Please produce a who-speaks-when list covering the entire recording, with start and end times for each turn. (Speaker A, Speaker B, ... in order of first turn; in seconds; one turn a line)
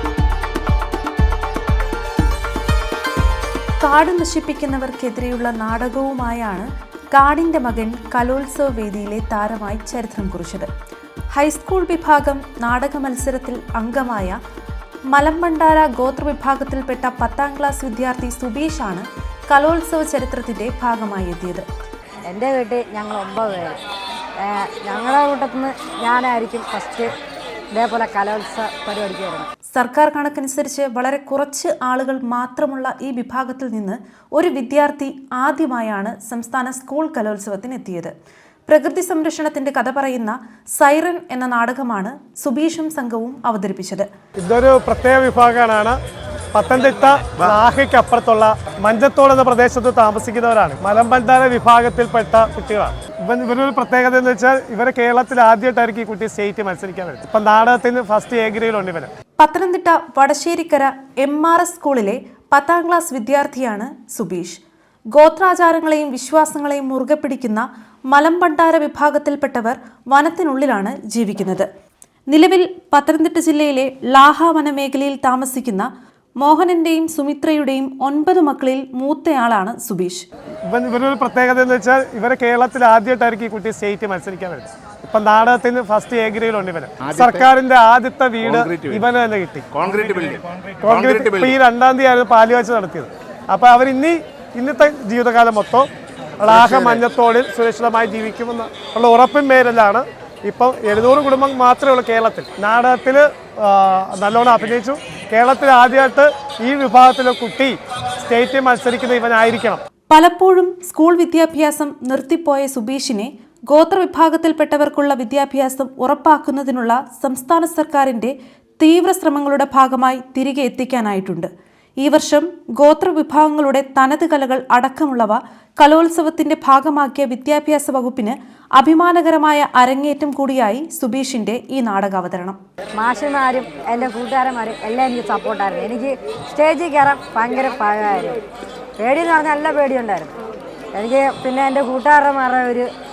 Speaker A: 3.8-10.7
Speaker A: 11.3-14.4
Speaker A: 15.1-21.7
Speaker B: 22.2-23.8
Speaker B: 24.4-27.1
Speaker B: 27.7-29.5
Speaker A: 29.7-38.1
Speaker A: 38.7-44.1
Speaker C: 44.4-46.0
Speaker C: 46.5-59.1
Speaker A: 59.4-64.6
Speaker A: 65.1-71.7
Speaker A: 72.3-80.2
Speaker C: 80.7-89.7
Speaker D: 87.0-87.4
Speaker D: 88.4-89.0
Speaker D: 89.7-91.5
Speaker C: 90.8-95.9
Speaker C: 96.4-109.8
Speaker D: 96.5-97.0
Speaker A: 110.1-121.5
Speaker A: 122.0-132.6
Speaker B: 133.0-138.4
Speaker B: 139.0-140.3
Speaker B: 140.9-142.9